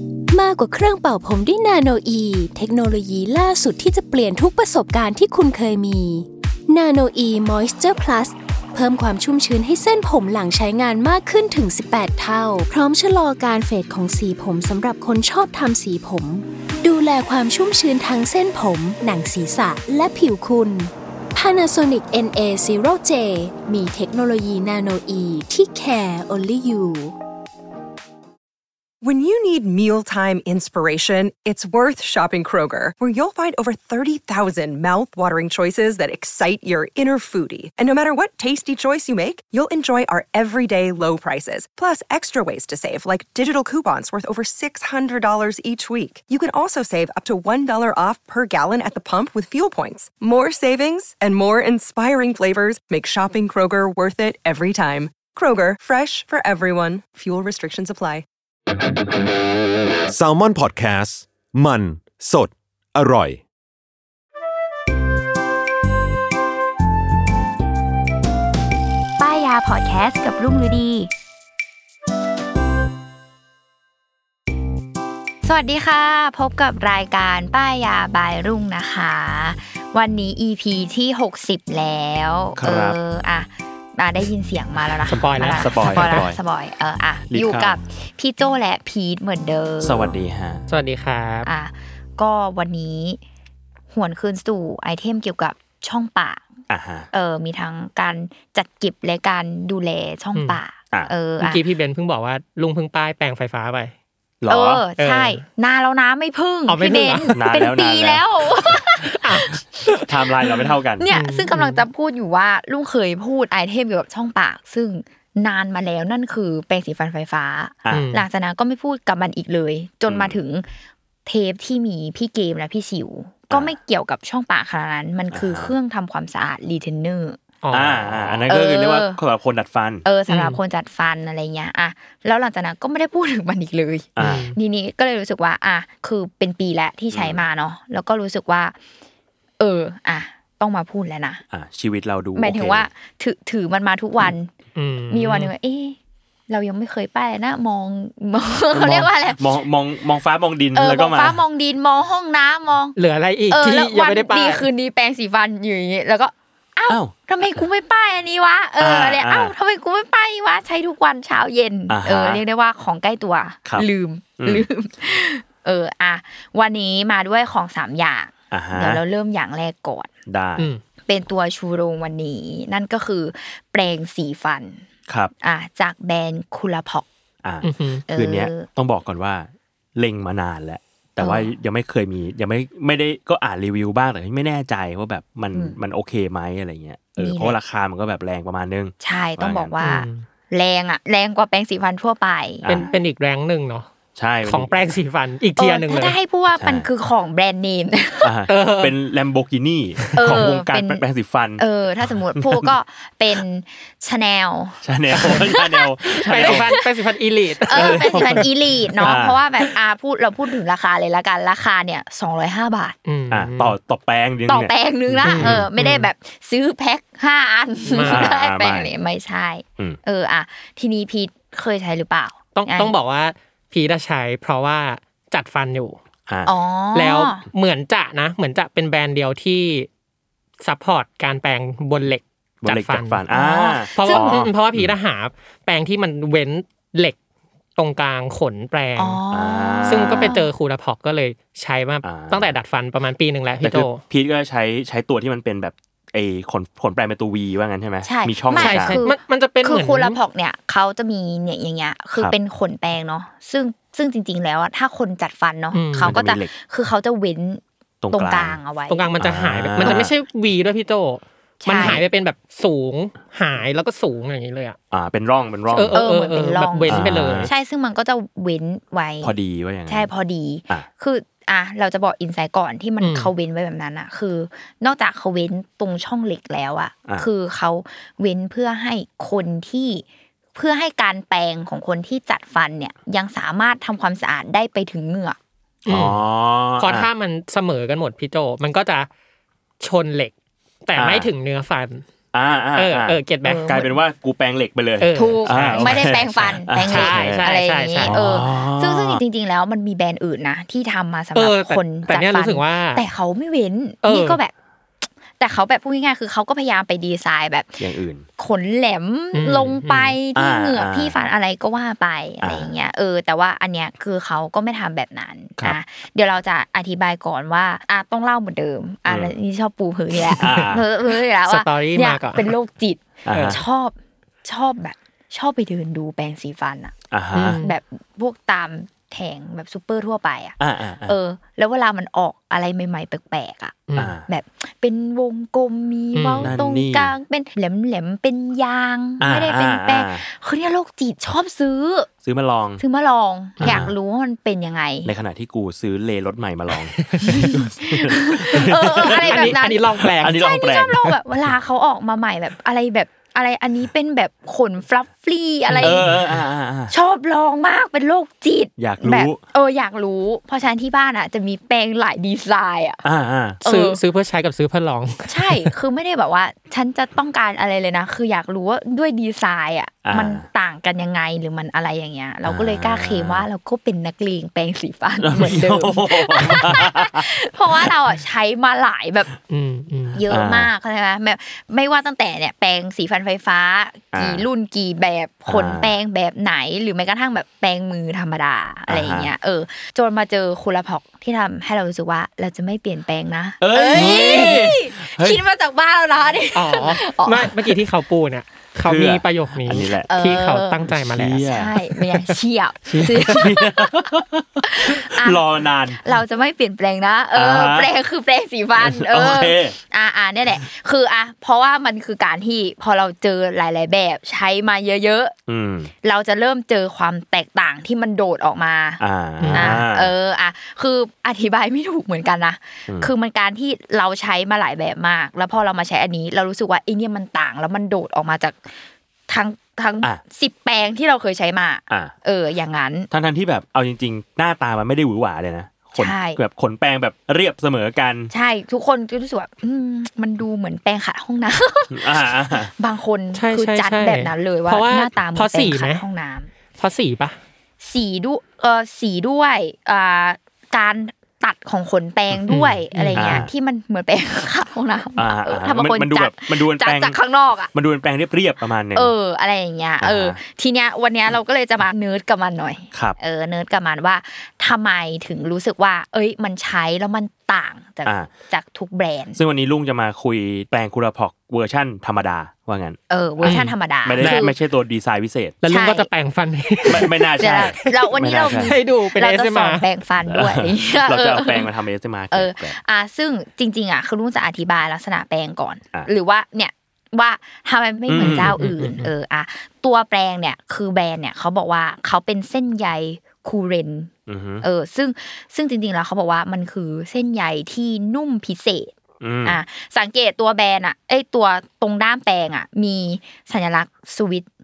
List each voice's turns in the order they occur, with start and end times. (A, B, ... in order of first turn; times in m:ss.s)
0:00.3-0:27.2 A
0:29.0-0:58.2 B
1:00.1-1:03.4 C
1:09.2-1:11.1 D
1:15.4-1:30.2 D
1:22.6-1:23.0 E
1:25.0-1:26.2 F
1:25.4-1:26.4 E
1:27.3-1:27.8 E
1:29.8-1:30.6 E
1:30.7-1:31.5 F
1:31.4-1:33.2 D
1:33.9-1:36.4 D
1:36.7-1:37.1 E
1:37.1-1:41.6 D
1:41.4-1:43.9 F
1:44.4-1:44.8 E
1:44.5-1:49.2 D
1:45.0-1:45.4 F
1:46.7-1:47.4 F
1:47.3-1:48.2 E
1:49.0-1:50.1 F
1:49.9-1:51.0 E
1:51.0-2:00.6 D
1:51.1-1:51.8 F
1:57.9-1:58.2 F
2:00.1-2:00.4 E
2:01.2-2:07.4 D
2:03.5-2:03.7 E
2:05.3-2:05.7 E
2:07.6-2:08.3 F
2:07.7-2:10.0 E
2:08.5-2:09.2 D
2:10.0-2:18.8 D
2:10.3-2:10.6 F
2:14.2-2:14.4 E
2:14.2-2:14.6 F
2:17.1-2:17.4 E
2:19.6-2:21.4 D
2:21.5-2:22.9 E
2:22.3-2:24.5 D
2:24.8-2:25.5 F
2:25.1-2:26.0 D
2:26.5-2:29.4 D
2:28.7-2:31.4 E
2:30.7-2:33.0 D
2:33.0-2:34.7 F
2:33.5-2:50.1 D
2:36.9-2:37.1 E
2:38.8-2:39.5 E
2:41.9-2:42.4 E
2:44.4-2:44.7 E
2:48.5-2:49.0 E
2:50.2-2:50.7 E
2:51.0-2:54.8 D
2:55.1-2:55.3 E
2:55.4-2:57.0 D
2:57.4-3:09.7 E
2:57.6-2:58.0 F
2:58.1-2:58.7 D
3:01.2-3:01.5 D
3:07.2-3:07.6 D
3:09.0-3:12.7 D
3:09.8-3:10.2 F
3:12.6-3:13.0 E
3:12.7-3:13.9 F
3:14.2-3:14.7 E
3:14.4-3:16.2 F
3:15.6-3:18.3 D
3:16.5-3:16.9 E
3:18.2-3:22.7 E
3:18.5-3:18.9 F
3:20.1-3:20.5 F
3:20.1-3:21.0 D
3:21.6-3:26.9 D
3:24.8-3:26.8 E
3:26.2-3:29.1 F
3:27.7-3:32.9 D
3:27.7-3:28.5 E
3:29.0-3:29.4 E
3:33.0-3:33.7 F
3:33.3-3:35.7 E
3:34.5-3:42.9 D
3:35.2-3:36.1 F
3:37.9-3:38.3 F
3:38.0-3:38.9 E
3:42.5-3:46.0 F
3:46.3-3:46.5 E
3:46.4-3:47.4 D
3:46.9-3:49.9 F
3:50.6-3:53.2 F
3:52.6-3:54.9 E
3:53.3-3:54.4 D
3:54.0-3:57.2 F
3:57.8-3:59.2 F
3:59.0-4:00.5 D
3:59.3-4:00.4 E
3:59.8-4:04.0 F
4:02.0-4:02.5 E
4:03.6-4:09.0 E
4:08.0-4:19.1 D
4:08.5-4:10.2 F
4:15.7-4:16.1 F
4:16.0-4:16.5 E
4:18.0-4:18.6 E
4:18.9-4:24.8 F
4:19.2-4:20.1 E
4:21.6-4:22.0 D
4:24.9-4:26.0 E
4:25.7-4:27.5 F
4:25.9-4:29.3 D
4:26.9-4:27.5 E
4:29.2-4:30.1 E
4:29.9-4:45.4 D
4:33.0-4:33.3 F
4:45.8-4:47.1 E
4:45.9-4:46.2 F
4:46.8-4:49.1 F
4:49.8-4:50.3 F
4:50.8-4:52.0 F
4:51.0-4:51.3 E
4:52.3-4:57.4 E
4:52.8-4:53.8 F
4:53.4-4:53.9 D
4:55.0-4:56.2 F
4:55.1-5:04.5 D
4:56.8-4:58.4 F
4:58.0-4:59.2 E
5:01.3-5:03.0 F
5:04.0-5:04.4 F
5:05.4-5:07.8 D
5:07.8-5:08.2 E
5:08.4-5:26.9 D
5:09.3-5:10.1 F
5:10.3-5:11.2 E
5:12.4-5:12.7 E
5:19.1-5:19.3 E
5:20.4-5:20.7 F
5:20.4-5:20.8 E
5:21.4-5:22.5 F
5:23.2-5:23.6 E
5:23.3-5:23.6 F
5:27.1-5:27.6 E
5:27.3-5:27.7 F
5:27.6-5:42.1 D
5:30.6-5:31.2 E
5:33.9-5:34.1 F
5:34.0-5:34.3 E
5:36.1-5:36.5 F
5:36.4-5:37.1 E
5:39.2-5:40.2 E
5:42.2-5:42.8 E
5:42.8-5:45.1 D
5:43.6-5:43.9 E
5:45.0-5:51.0 E
5:47.2-5:56.1 D
5:48.9-5:50.4 F
5:55.7-5:56.2 F
5:55.8-5:56.9 E
5:56.9-6:03.0 D
5:58.8-5:59.4 E
6:03.0-6:03.6 E
6:03.6-6:05.7 F
6:03.6-6:04.0 D
6:05.2-6:19.3 D
6:10.0-6:10.4 E
6:12.4-6:13.4 E
6:15.2-6:17.3 E
6:19.5-6:20.2 F
6:20.1-6:37.7 D
6:20.2-6:20.7 E
6:24.1-6:24.5 E
6:25.5-6:25.9 E
6:28.9-6:29.3 E
6:33.6-6:35.4 E
6:34.0-6:34.5 F
6:36.5-6:42.3 F
6:38.8-6:40.1 E
6:40.1-6:40.8 D
6:40.9-6:41.8 E
6:41.4-6:44.1 D
6:42.9-6:46.0 E
6:42.9-6:43.4 F
6:44.6-6:45.4 D
6:45.9-6:55.3 D
6:47.3-6:47.9 E
6:48.8-6:49.8 E
6:55.5-6:55.9 E
6:56.0-6:59.0 D
6:59.0-7:00.1 E
6:59.4-6:59.8 F
6:59.5-7:08.7 D
7:09.3-7:13.1 D
7:13.1-7:18.3 E
7:16.0-7:16.4 D
7:18.3-7:26.5 D
7:21.9-7:22.7 E
7:23.3-7:26.0 F
7:26.8-7:27.4 F
7:27.8-7:37.7 D
7:32.5-7:33.4 F
7:33.2-7:33.5 E
7:35.2-7:37.2 E
7:37.7-7:39.1 E
7:38.9-7:49.4 D
7:40.0-7:40.4 E
7:48.0-7:48.3 E
7:49.3-7:55.6 E
7:53.1-7:54.5 D
7:53.4-7:54.5 F
7:55.6-7:57.3 F
7:55.7-7:56.1 D
7:56.8-7:58.7 E
7:57.4-8:01.7 D
7:58.6-7:59.8 F
8:00.3-8:02.8 E
8:02.3-8:14.1 D
8:08.1-8:08.6 E
8:08.2-8:09.1 F
8:14.3-8:14.6 E
8:14.6-8:18.9 D
8:19.2-8:19.6 E
8:19.4-8:24.4 D